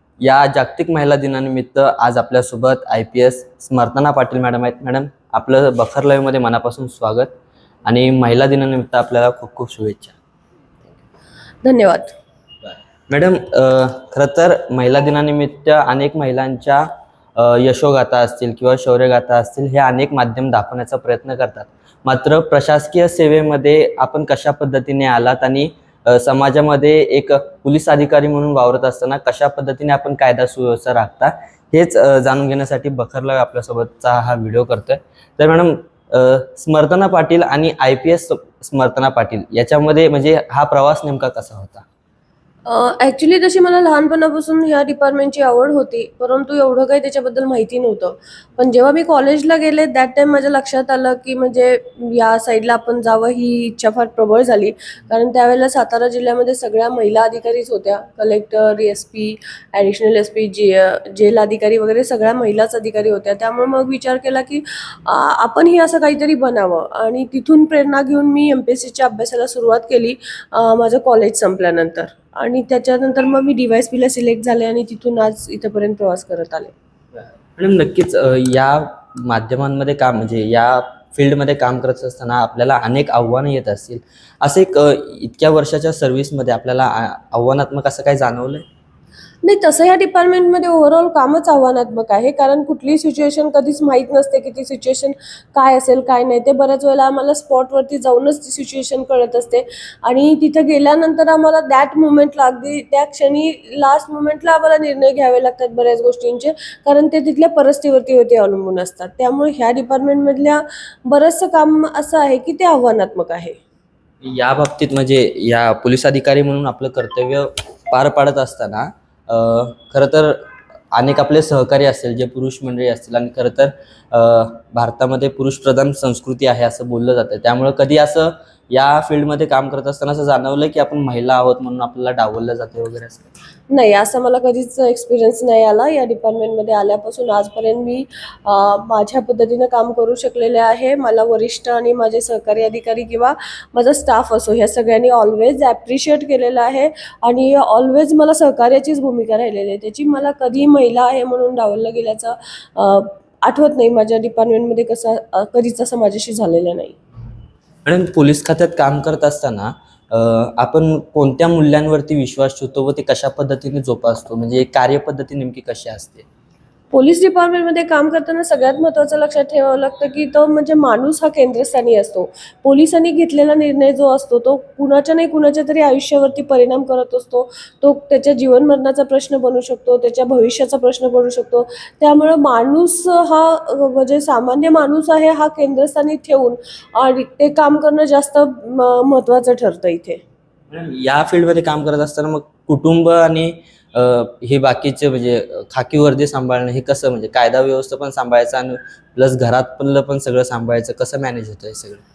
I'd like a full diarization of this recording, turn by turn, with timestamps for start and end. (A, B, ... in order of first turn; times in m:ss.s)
0:00.2-0:07.3 A
0:07.9-0:10.2 A
0:11.6-0:12.2 B
0:12.6-0:16.9 A
0:17.4-0:41.8 A
0:42.7-1:16.7 B
1:17.2-1:28.6 A
1:29.4-1:53.6 B
1:54.2-2:00.4 A
2:00.9-2:13.3 A
2:13.7-2:37.0 B
2:37.9-2:46.2 A
2:46.9-3:10.2 B
3:10.7-3:22.0 A